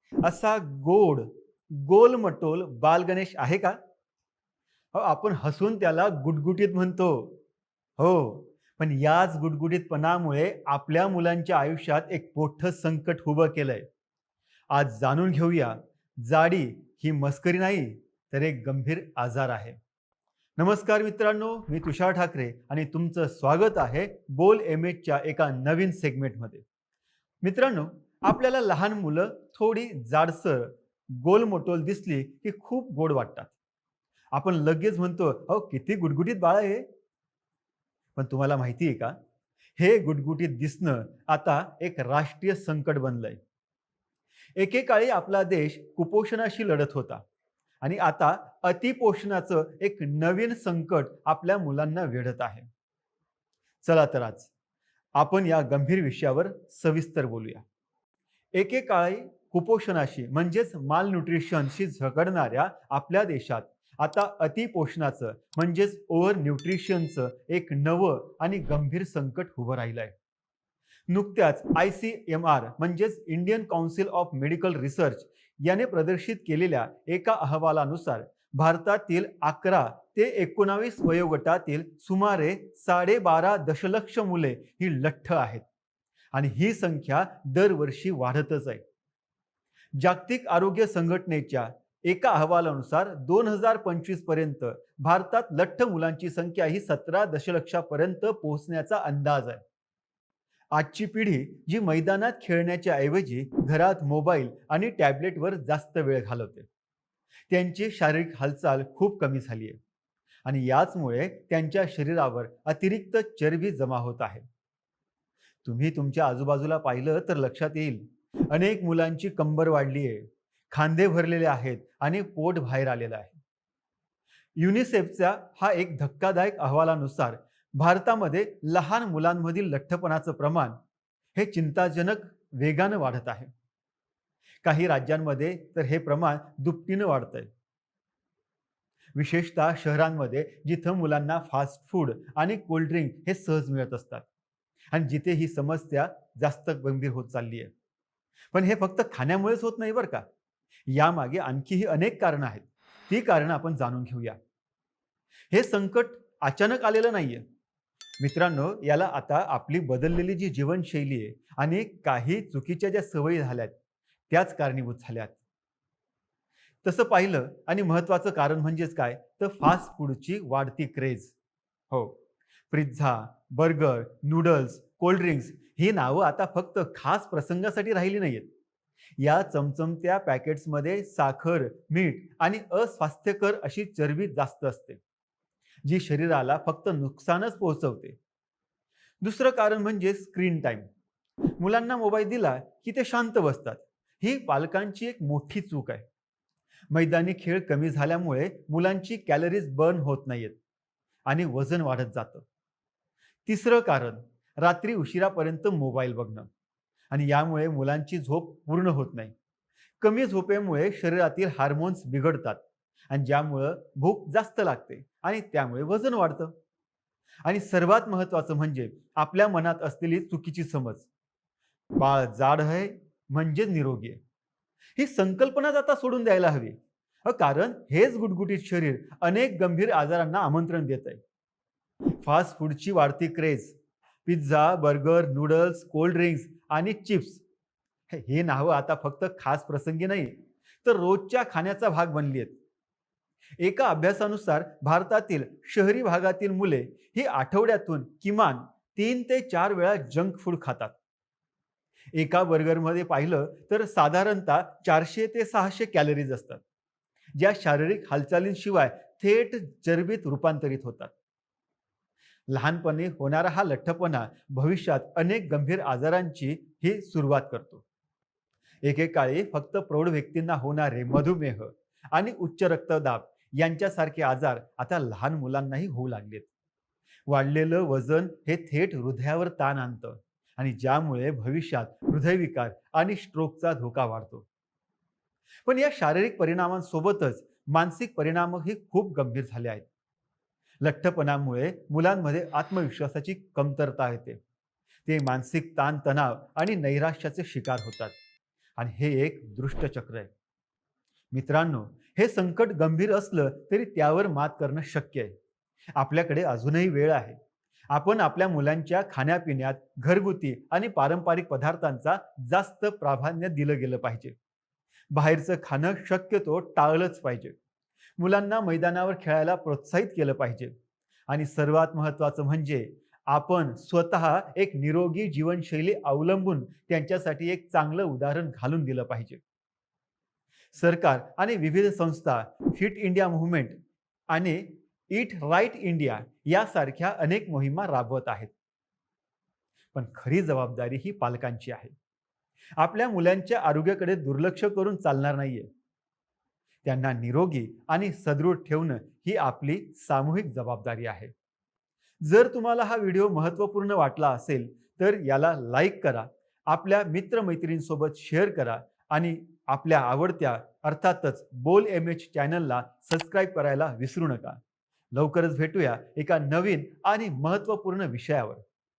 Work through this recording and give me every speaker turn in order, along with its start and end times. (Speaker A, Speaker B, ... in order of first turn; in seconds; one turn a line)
Speaker A: 0.2-3.8
Speaker A: 4.9-7.4
Speaker A: 8.0-13.8
Speaker A: 14.7-19.8
Speaker A: 20.6-26.6
Speaker A: 27.4-33.5
Speaker A: 34.3-36.8
Speaker A: 38.1-39.1
Speaker A: 39.8-43.4
Speaker A: 44.6-47.2
Speaker A: 47.8-52.7
Speaker A: 53.8-54.5
Speaker A: 55.1-57.6
Speaker A: 58.5-70.2
Speaker A: 71.1-85.6
Speaker A: 86.3-88.8
Speaker A: 90.0-99.6
Speaker A: 100.7-106.7
Speaker A: 107.5-109.8
Speaker A: 110.5-114.5
Speaker A: 115.6-123.4
Speaker A: 124.6-130.8
Speaker A: 131.3-133.5
Speaker A: 134.6-137.5
Speaker A: 139.1-144.2
Speaker A: 144.9-147.7
Speaker A: 148.5-150.2
Speaker A: 150.9-154.4
Speaker A: 155.5-157.4
Speaker A: 158.2-163.7
Speaker A: 164.3-165.3
Speaker A: 166.8-171.3
Speaker A: 172.7-178.5
Speaker A: 179.2-185.0
Speaker A: 185.8-188.2
Speaker A: 189.2-190.9
Speaker A: 191.6-196.1
Speaker A: 196.9-200.6
Speaker A: 201.3-202.4
Speaker A: 203.4-206.5
Speaker A: 207.1-209.3
Speaker A: 210.0-216.5
Speaker A: 217.4-221.1
Speaker A: 222.0-224.2
Speaker A: 225.0-231.2
Speaker A: 232.2-233.7
Speaker A: 234.2-237.4
Speaker A: 238.1-242.6
Speaker A: 243.6-250.9
Speaker A: 252.1-256.6
Speaker A: 257.4-261.1
Speaker A: 262.5-267.8
Speaker A: 268.8-276.5
Speaker A: 277.3-284.4
Speaker A: 285.6-289.9
Speaker A: 290.8-294.4
Speaker A: 295.1-298.1
Speaker A: 298.8-300.3
Speaker A: 301.3-305.3
Speaker A: 305.9-307.4
Speaker A: 307.9-314.3
Speaker A: 315.1-317.6
Speaker A: 318.2-320.7
Speaker A: 321.3-329.4
Speaker A: 330.7-333.8
Speaker A: 334.3-338.5
Speaker A: 339.9-341.9
Speaker A: 342.8-345.7
Speaker A: 346.8-351.3
Speaker A: 352.2-364.6
Speaker A: 365.1-368.6